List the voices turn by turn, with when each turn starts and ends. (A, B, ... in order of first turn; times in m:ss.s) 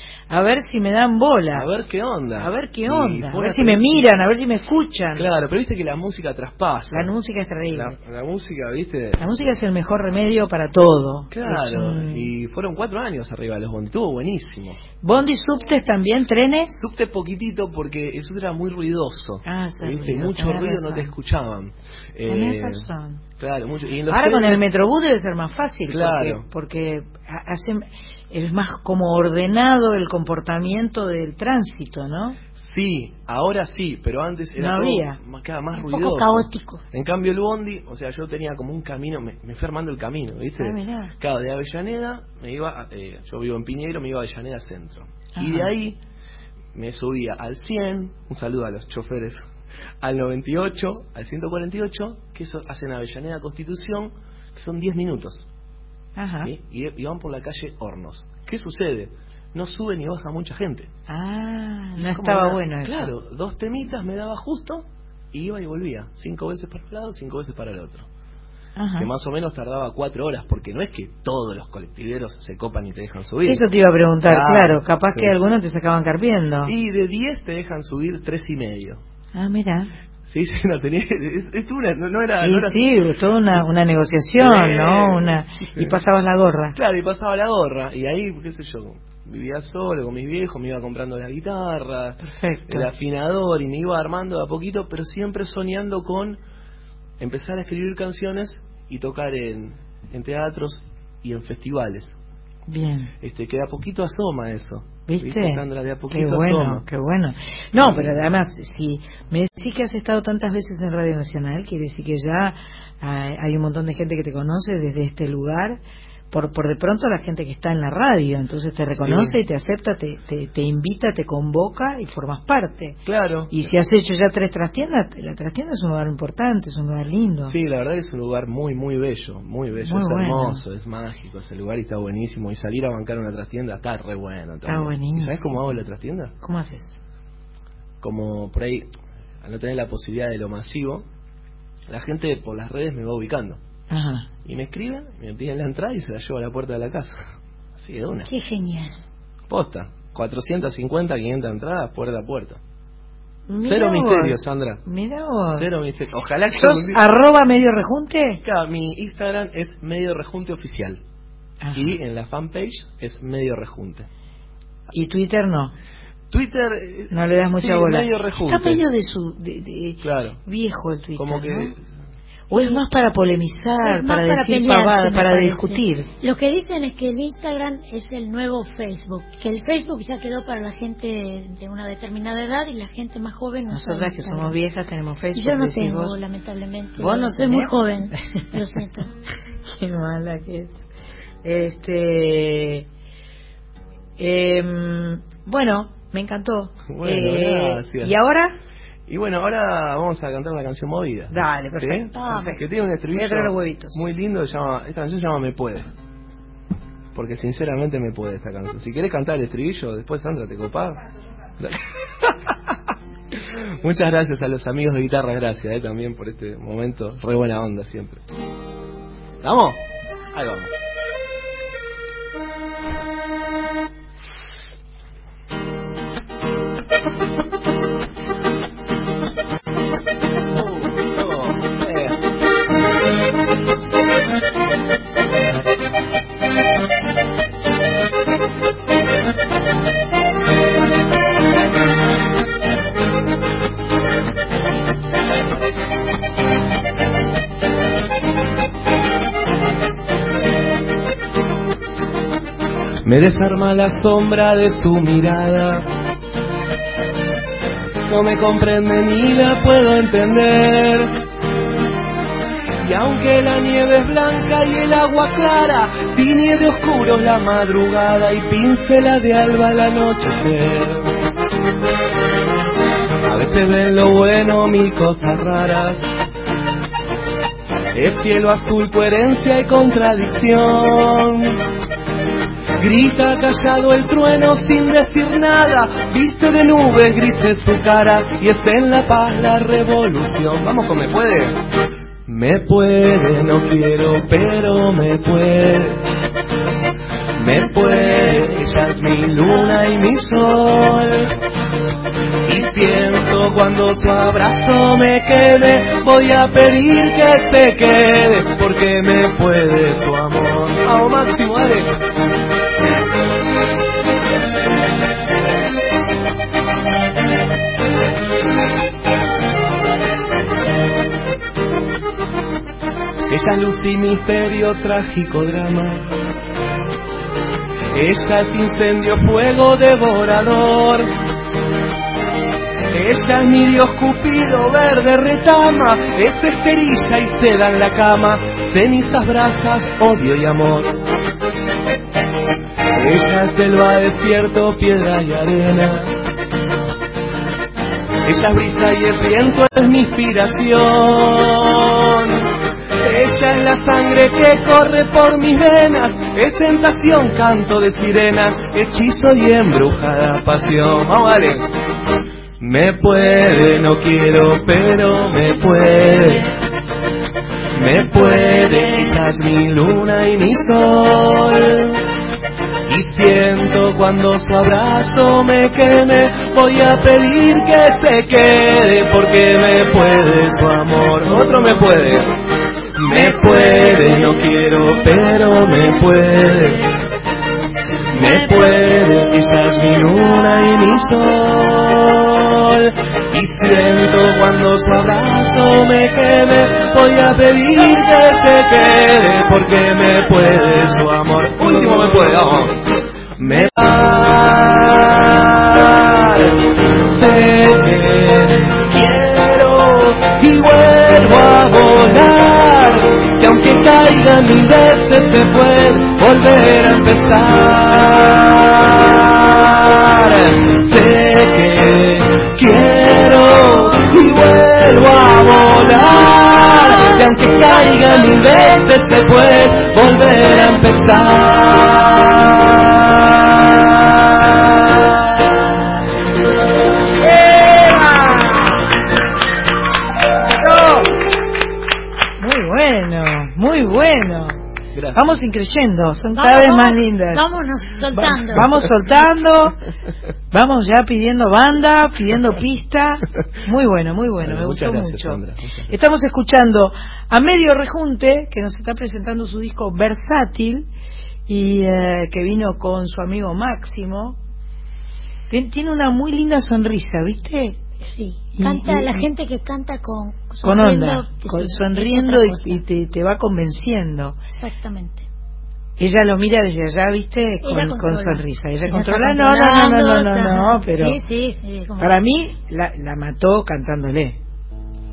0:00.3-0:01.6 A
0:01.5-0:04.2 B
0:02.4-0:05.2 A
0:05.2-0:07.1 B
0:06.9-0:08.0 A
0:07.7-0:09.5 B
0:09.2-0:12.3 A
0:11.3-0:14.8 B
0:15.0-0:16.8 A
0:16.7-0:24.6 B
0:19.4-0:21.1 A
0:22.3-0:23.2 A
0:24.1-0:32.4 A
0:25.9-0:26.5 B
0:32.5-0:46.0 B
0:34.6-0:35.2 A
0:35.8-0:36.8 C
0:40.6-0:41.1 A
0:45.4-0:45.7 A
0:46.8-0:49.4 B
0:50.0-0:55.4 B
0:56.2-0:56.5 A
0:56.4-1:00.9 B
1:01.1-1:03.1 A
1:02.0-1:08.1 B
1:08.8-1:09.1 A
1:09.0-1:15.4 B
1:13.5-1:16.7 A
1:16.7-1:19.0 B
1:19.3-1:19.9 A
1:20.2-1:23.6 B
1:22.4-1:26.8 A
1:24.4-1:26.0 B
1:26.8-1:36.4 B
1:32.2-1:32.9 A
1:37.2-1:42.2 B
1:42.7-1:43.1 A
1:43.2-1:46.8 B
1:45.1-1:55.8 A
1:47.7-1:48.3 B
1:56.3-2:03.0 A
1:59.0-1:59.4 B
2:03.1-2:03.8 B
2:03.5-2:07.6 A
2:07.4-2:16.3 B
2:09.8-2:10.6 A
2:14.7-2:15.6 A
2:16.4-2:17.0 A
2:18.0-2:18.9 B
2:19.4-2:21.0 B
2:21.9-2:23.6 B
2:23.9-2:24.3 A
2:24.4-2:28.3 B
2:28.3-2:29.0 C
2:29.5-2:32.6 B
2:33.5-2:35.7 A
2:33.6-2:34.8 B
2:35.5-2:37.0 B
2:36.6-2:38.4 A
2:38.4-2:41.0 B
2:41.6-2:41.9 A
2:41.7-2:44.1 B
2:44.9-2:45.7 A
2:46.3-2:48.8 B
2:47.1-2:51.7 A
2:50.0-2:50.4 B
2:51.2-2:51.8 B
2:52.5-2:56.1 A
2:52.5-2:52.8 C
2:53.8-3:04.6 C
3:03.7-3:06.2 A
3:05.4-3:09.1 C
3:07.0-3:07.8 A
3:09.6-3:10.8 A
3:11.4-3:12.9 A
3:14.2-3:18.6 A
3:16.9-3:18.2 B
3:19.1-3:25.9 B
3:21.3-3:22.6 A
3:23.1-3:24.0 A
3:27.1-3:31.0 B
3:31.6-3:32.3 B
3:33.8-3:38.2 B
3:39.4-3:39.8 B
3:40.3-3:40.7 B
3:50.6-3:52.1 B
4:13.0-4:15.9 B
4:18.1-4:21.2 B
4:22.8-4:31.1 B
4:33.3-4:36.1 B
4:37.9-4:41.6 B
4:42.8-4:51.6 B
4:52.3-4:56.0 B
4:57.4-5:01.3 B
5:02.4-5:11.9 B
5:23.3-5:26.1 B
5:27.9-5:31.1 B
5:32.9-5:41.0 B
5:42.9-5:46.2 B
5:48.3-5:52.5 B
5:53.0-6:01.7 B
6:02.6-6:06.5 B
6:07.8-6:12.0 B
6:12.9-6:22.3 B
6:23.0-6:26.9 B
6:28.1-6:42.8 B
6:43.4-7:15.5 B
7:17.4-7:18.7 A
7:20.6-7:21.0 A
7:22.4-7:24.6 A
7:24.9-7:25.4 B
7:25.1-7:27.4 A
7:26.4-7:28.7 C
7:28.1-7:29.8 A
7:28.2-7:29.1 B
7:30.5-7:35.4 A
7:34.4-7:36.0 B
7:35.9-7:40.9 A
7:41.5-7:44.4 A
7:45.5-7:47.8 A
7:48.0-7:52.8 C
7:48.6-7:49.2 A
7:50.6-7:54.4 A
7:54.6-7:55.2 C
7:56.0-8:01.2 A
7:57.6-8:02.2 C
8:02.0-8:04.4 A